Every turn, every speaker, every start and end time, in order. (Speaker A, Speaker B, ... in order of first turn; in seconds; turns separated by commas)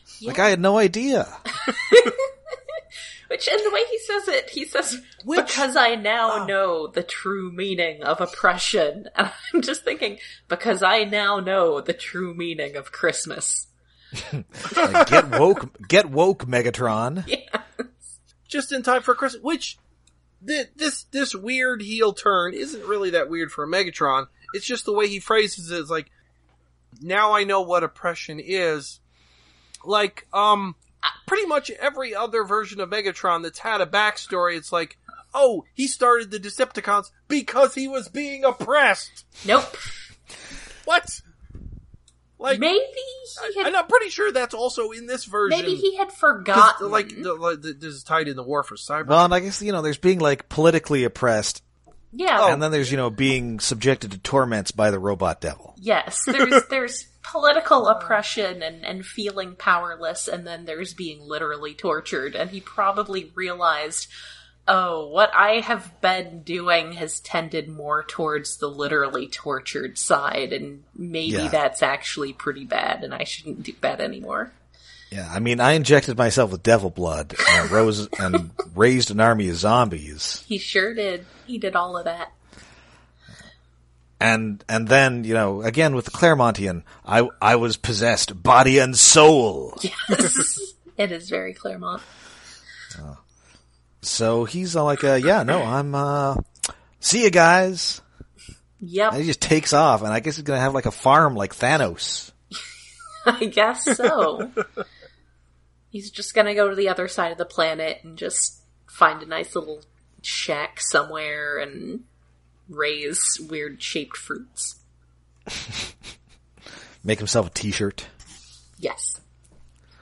Speaker A: 0.2-0.5, Speaker B: 0.2-1.4, Speaker A: 1.5-13.7, Speaker C: 5.2-5.7, Speaker B: 14.2-17.3, Speaker A: 17.2-17.9, Speaker C: 18.5-19.8, Speaker C: 20.4-26.1, Speaker C: 27.0-29.0, Speaker C: 29.8-39.3, Speaker A: 39.4-40.1, Speaker C: 40.8-41.2, Speaker C: 42.4-42.6, Speaker A: 42.5-43.7, Speaker C: 43.4-45.9, Speaker A: 45.5-47.3, Speaker C: 46.5-49.3, Speaker B: 49.0-51.6, Speaker A: 52.1-52.6, Speaker C: 52.4-52.6, Speaker B: 52.4-55.7, Speaker A: 55.8-64.1, Speaker A: 64.7-74.5, Speaker B: 71.2-71.6, Speaker B: 75.1-80.4, Speaker A: 80.4-82.3, Speaker B: 84.2-89.8, Speaker A: 89.8-92.0, Speaker B: 92.9-93.2, Speaker B: 94.0-96.4, Speaker B: 97.0-98.0, Speaker A: 98.8-99.2, Speaker B: 99.1-102.3, Speaker A: 103.2-104.6, Speaker A: 105.9-112.0, Speaker A: 112.7-114.8, Speaker B: 117.0-118.1, Speaker A: 118.8-119.2